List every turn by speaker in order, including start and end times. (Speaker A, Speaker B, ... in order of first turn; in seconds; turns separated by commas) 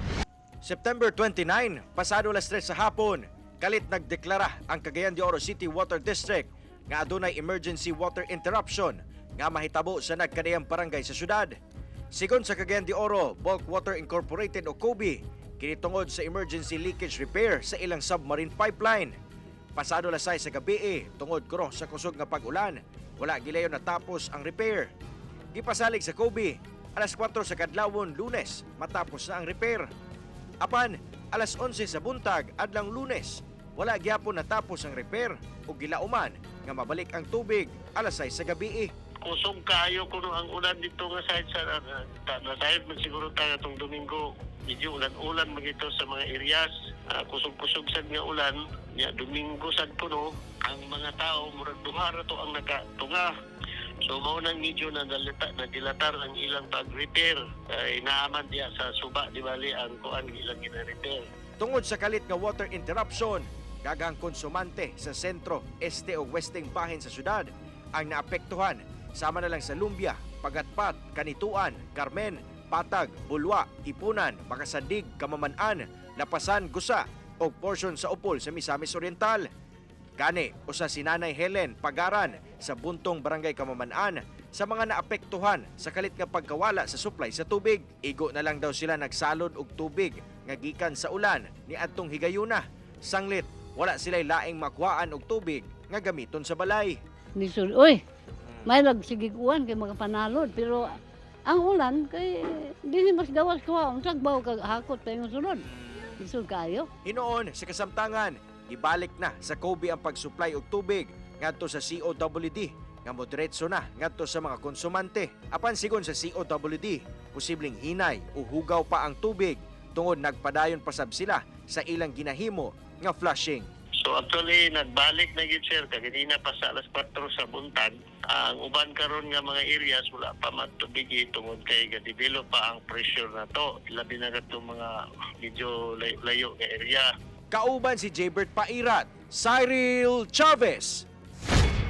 Speaker A: 0.6-11.5, Speaker A: 12.1-19.1, Speaker A: 19.8-24.9, Speaker A: 25.5-29.9, Speaker A: 30.6-38.9, Speaker B: 39.2-53.3, Speaker B: 54.0-61.2, Speaker A: 61.6-79.5, Speaker A: 80.2-97.0, Speaker C: 97.3-98.0, Speaker C: 98.6-105.7, Speaker C: 106.2-106.9, Speaker A: 107.0-123.7, Speaker B: 124.0-134.9, Speaker B: 135.4-137.1, Speaker A: 137.5-141.0